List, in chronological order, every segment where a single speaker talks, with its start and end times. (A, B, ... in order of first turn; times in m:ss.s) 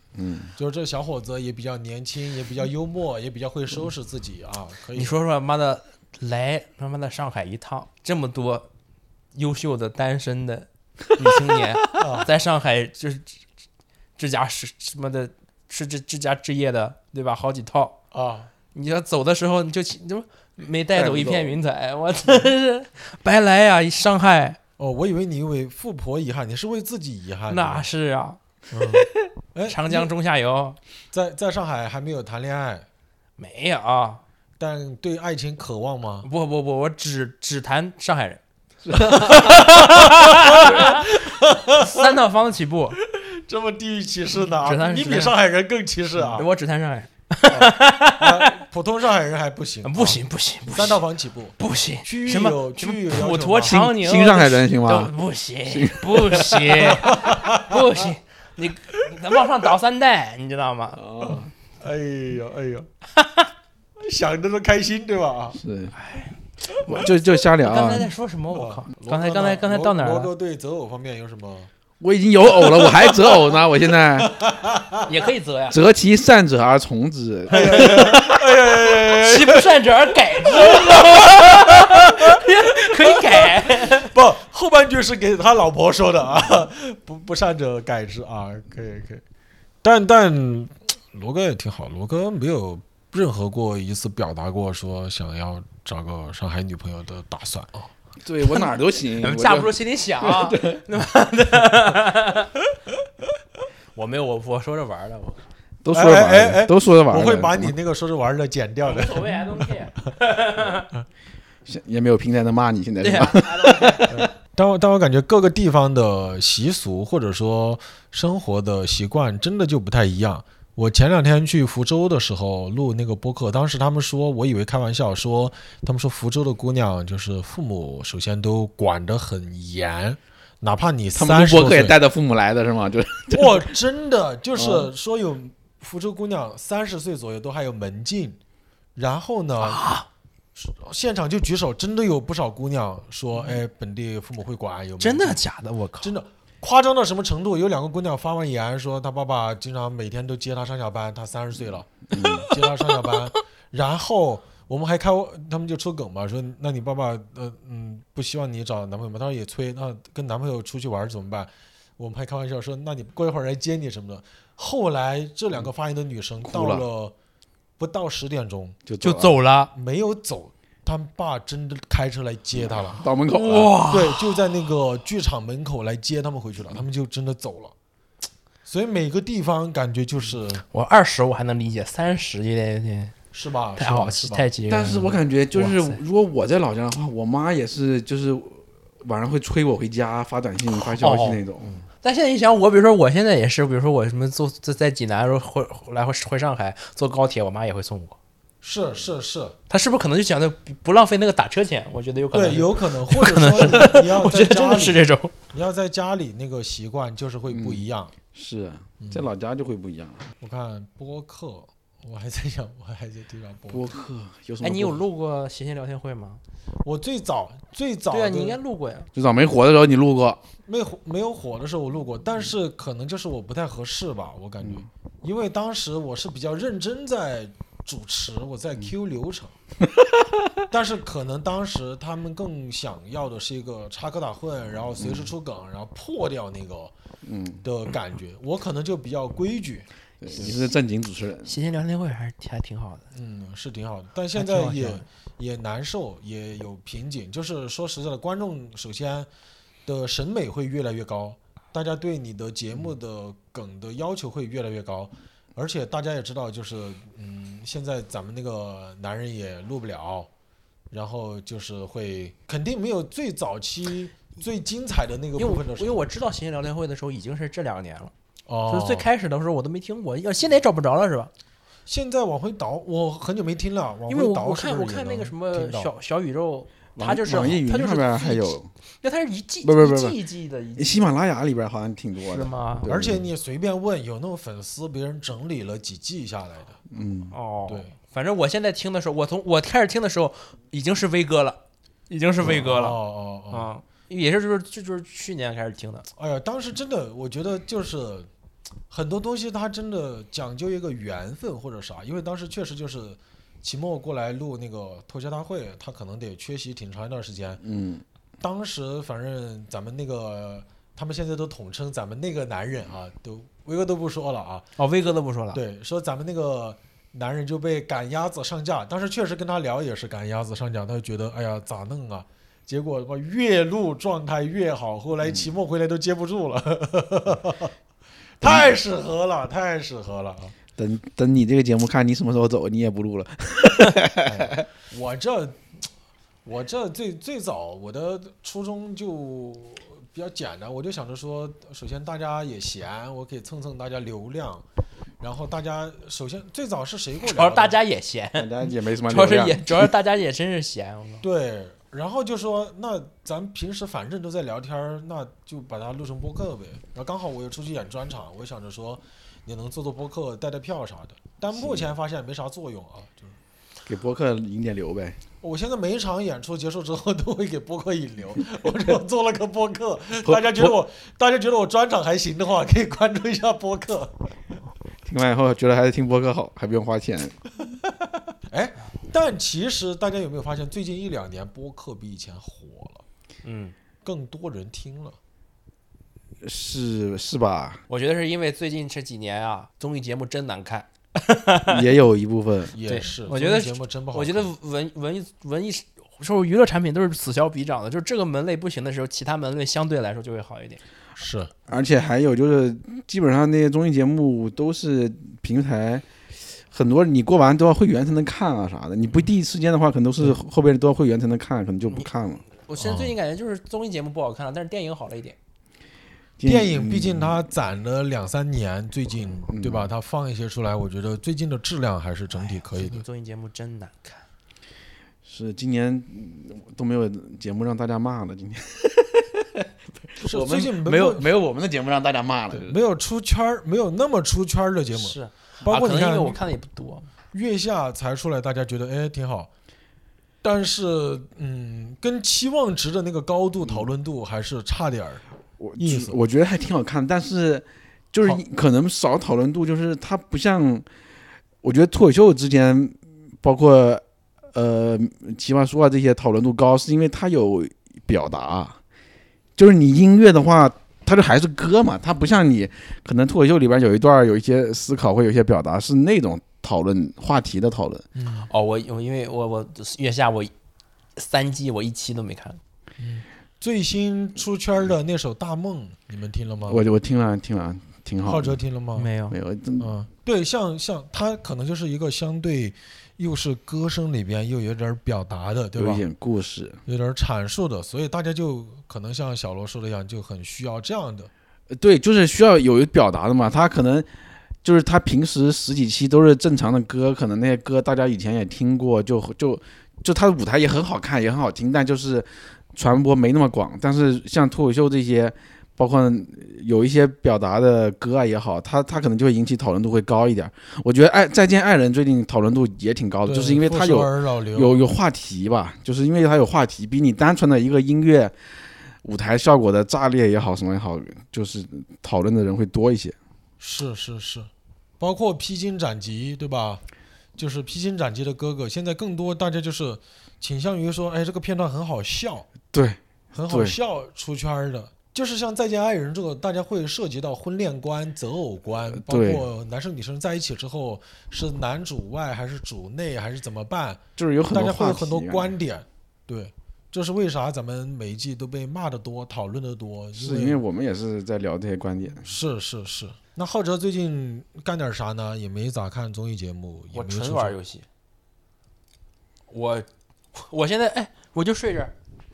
0:00.2-0:00.5 A
0:00.6-0:05.2 B
0:05.0-0:08.7 C
0:09.3-0:13.4 C
0:12.0-0:12.3 B
0:14.2-0:18.0 C
0:18.1-0:18.5 B
0:18.7-0:24.6 C
0:21.0-0:21.6 A
0:24.8-0:27.9 B
0:27.5-0:28.4 C
0:28.7-0:30.1 B
0:29.7-0:30.8 C
0:31.1-0:32.9 B
0:33.4-0:34.2 C
0:34.6-0:36.3 B
0:36.2-0:38.4 C
0:38.8-0:39.6 A
0:39.0-0:41.2 C
0:40.5-0:42.1 B
0:41.7-0:43.0 C
0:43.0-0:46.5 B
0:44.6-0:45.4 C
0:46.3-0:48.6 C
0:47.5-0:53.8 B
0:49.8-0:51.0 C
0:51.6-1:01.0 C
0:53.7-0:55.1 A
0:55.7-0:56.8 A
0:57.0-0:57.8 B
1:01.0-1:01.5 A
1:01.3-1:02.9 B
1:03.2-1:03.5 C
1:04.0-1:05.6 B
1:05.6-1:05.9 A
1:06.0-1:10.3 C
1:06.9-1:08.1 A
1:08.5-1:11.7 B
1:12.0-1:14.3 A
1:12.6-1:13.5 B
1:14.2-1:15.1 B
1:15.0-1:15.8 C
1:15.7-1:18.4 A
1:17.5-1:19.8 B
1:17.6-1:18.1 C
1:19.1-1:24.1 C
1:20.4-1:22.4 B
1:23.1-1:29.2 B
1:29.8-1:37.9 B
1:38.2-1:40.8 A
1:39.2-1:42.5 C
1:44.0-1:45.4 C
1:45.8-1:47.8 A
1:45.9-1:49.7 B
1:48.8-1:50.9 C
1:51.7-1:54.2 A
1:53.0-1:54.3 C
1:54.1-2:12.0 B
2:11.2-2:13.7 A
2:13.3-2:18.4 B
2:14.6-2:14.9 A
2:19.0-2:19.8 B
2:19.6-2:20.1 C
2:20.6-2:25.4 B
2:25.0-2:26.1 C
2:26.0-2:47.1 B
2:32.1-2:32.5 A
2:46.4-2:46.8 A
2:47.8-2:48.8 B
2:48.9-2:49.3 A
2:49.0-2:49.7 C
2:49.7-2:53.0 B
2:52.6-2:53.8 A
2:53.3-2:54.3 C
2:53.9-2:57.7 B
2:58.7-3:00.6 B
3:00.7-3:03.1 C
3:03.3-3:04.5 B
3:03.8-3:06.0 C
3:04.7-3:11.7 A
3:10.8-3:11.4 C
3:12.0-3:18.2 C
3:18.6-3:19.6 B
3:19.7-3:25.3 C
3:22.3-3:28.1 B
3:27.5-3:30.3 A
3:29.0-3:29.3 B
3:30.4-3:34.0 B
3:33.7-3:35.0 A
3:34.6-3:36.4 C
3:36.8-3:38.6 B
3:38.1-3:39.1 C
3:39.1-3:40.4 A
3:40.7-3:49.6 B
3:49.9-3:50.5 A
3:50.7-3:56.9 B
3:55.0-3:55.3 A
3:57.2-3:57.6 A
3:57.6-4:00.6 B
4:00.2-4:01.5 A
4:01.4-4:03.0 C
4:03.1-4:09.3 B
4:04.4-4:05.0 C
4:09.9-4:20.3 B
4:20.9-4:26.0 B
4:25.4-4:28.1 C
4:28.5-4:29.1 B
4:28.7-4:31.3 C
4:31.9-4:35.9 B
4:34.1-4:41.0 C
4:37.0-4:38.7 A
4:39.6-4:40.2 A
4:40.8-4:43.3 A
4:42.3-4:42.9 C
4:42.9-4:46.8 B
4:46.9-4:47.3 A
4:47.3-4:53.0 C
4:47.7-4:47.9 B
4:52.4-4:53.7 B
4:53.5-4:56.1 C
4:56.2-4:58.3 B
4:58.9-5:07.6 B
5:07.6-5:08.0 A
5:08.4-5:14.7 B
5:14.8-5:15.6 C
5:15.5-5:27.7 B
5:28.4-5:30.6 B
5:28.4-5:28.8 A
5:30.8-5:34.7 A
5:34.2-5:35.6 B
5:36.4-5:44.6 B
5:45.2-5:47.8 B
5:47.2-5:51.2 C
5:48.4-5:49.9 A
5:51.2-6:03.4 B
6:01.5-6:01.9 A
6:03.9-6:05.2 A
6:05.4-6:14.3 B
6:10.2-6:10.8 A
6:15.0-6:17.4 A
6:18.5-6:23.0 B
6:23.4-6:23.8 C
6:24.0-6:25.2 B
6:26.4-6:27.8 A
6:27.9-6:31.8 C
6:31.7-6:32.8 A
6:32.7-6:34.5 B
6:32.9-6:40.8 C
6:41.2-6:41.5 B
6:41.7-6:46.1 A
6:46.7-6:52.4 A
6:52.6-6:55.4 C
6:52.8-6:53.1 B
6:56.4-6:57.4 A
6:56.4-7:03.0 B
6:59.5-6:59.9 A
7:02.3-7:04.2 C
7:05.2-7:12.8 A
7:10.2-7:11.3 B
7:12.5-7:16.4 B
7:15.0-7:17.1 C
7:17.3-7:19.5 B
7:20.4-7:25.2 B
7:25.6-7:30.9 A
7:25.8-7:26.2 B
7:31.6-7:38.8 A
7:39.6-7:48.0 A
7:48.2-7:48.5 B
7:48.5-7:50.5 C
7:51.2-7:52.6 C
7:53.0-7:56.8 B
7:56.7-7:58.6 A
7:58.3-7:59.1 B
7:59.0-7:59.4 C
7:59.3-7:59.9 A
7:59.8-8:06.0 B
8:05.8-8:06.8 A
8:06.9-8:11.3 B
8:11.7-8:14.1 A
8:14.6-8:38.4 A
8:33.3-8:34.8 B
8:39.0-8:43.2 A
8:43.6-8:44.5 B
8:45.0-8:46.8 B
8:47.4-8:52.5 B
8:52.7-8:53.8 A
8:53.3-9:10.6 B
8:58.9-8:59.5 A
9:04.2-9:05.6 A
9:10.2-9:12.3 A
9:12.2-9:17.6 B
9:16.9-9:17.9 C
9:19.5-9:21.9 C